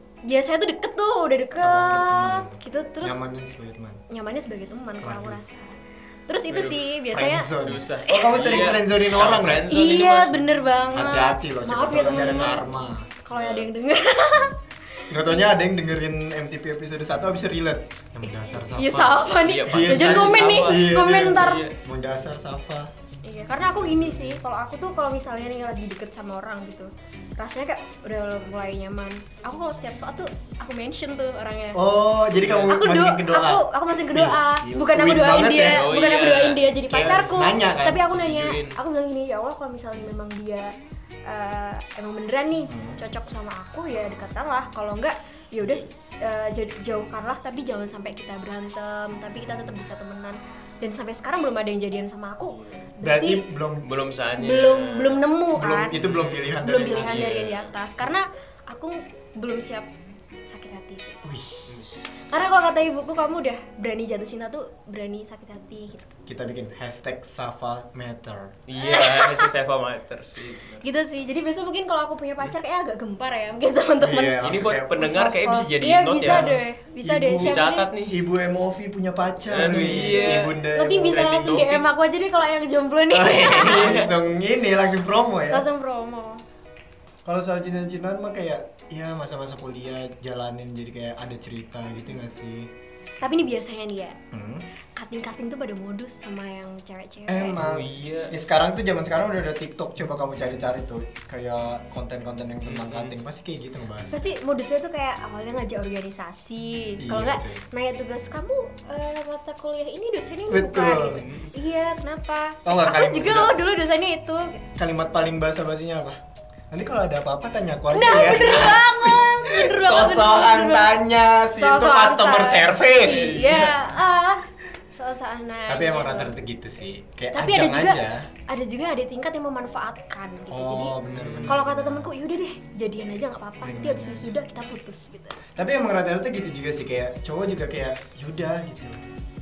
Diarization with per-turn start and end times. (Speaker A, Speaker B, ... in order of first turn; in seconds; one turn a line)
Speaker A: 0.2-3.2
Speaker B: 1.6-4.0
Speaker A: 4.1-7.5
Speaker B: 5.0-5.4
Speaker C: 6.5-6.9
Speaker B: 7.1-9.7
Speaker C: 7.5-10.4
Speaker A: 8.1-8.4
Speaker A: 9.7-12.6
Speaker B: 10.9-13.3
Speaker C: 12.0-12.5
Speaker A: 13.2-14.5
Speaker C: 13.3-13.6
Speaker A: 15.1-15.5
Speaker B: 15.1-22.9
Speaker A: 18.2-21.7
Speaker C: 19.2-21.7
Speaker A: 23.2-31.8
Speaker B: 23.6-24.4
Speaker B: 31.7-35.8
Speaker C: 32.4-32.7
Speaker A: 32.7-40.7
Speaker C: 35.7-36.8
Speaker B: 36.9-38.1
Speaker C: 38.1-38.8
Speaker A: 41.2-53.5
Speaker B: 42.7-43.0
Speaker C: 45.6-45.9
Speaker B: 49.4-49.8
Speaker C: 52.4-52.8
Speaker B: 53.0-53.9
Speaker C: 53.8-55.2
Speaker A: 54.4-56.0
Speaker B: 55.5-57.5
Speaker C: 55.9-57.7
Speaker A: 56.6-59.9
Speaker A: 60.5-61.2
Speaker B: 61.2-61.8
Speaker C: 61.7-62.3
Speaker A: 62.2-66.1
Speaker B: 66.3-68.5
Speaker C: 68.7-71.0
Speaker A: 68.8-69.5
Speaker A: 70.8-74.4
Speaker B: 74.0-75.7
Speaker C: 74.4-76.5
Speaker A: 75.8-77.9
Speaker B: 76.2-81.2
Speaker C: 77.4-78.2
Speaker C: 79.5-81.8
Speaker A: 80.6-84.0
Speaker B: 83.1-85.7
Speaker C: 83.5-84.1
Speaker A: 85.5-86.4
Speaker B: 87.2-92.7
Speaker A: 93.2-94.2
Speaker B: 94.3-94.7
Speaker A: 95.0-97.6
Speaker B: 97.3-104.3
Speaker C: 97.6-98.3
Speaker C: 102.6-103.1
Speaker A: 104.0-114.6
Speaker B: 107.0-107.6
Speaker B: 110.5-111.2
Speaker C: 111.1-111.5
Speaker B: 112.6-113.5
Speaker B: 114.8-116.2
Speaker B: 116.7-123.4
Speaker A: 117.9-126.3
Speaker C: 123.0-123.8
Speaker B: 125.7-128.3
Speaker A: 127.3-135.4
Speaker B: 130.5-132.1
Speaker C: 131.0-131.6
Speaker B: 133.6-134.3
Speaker B: 135.5-139.0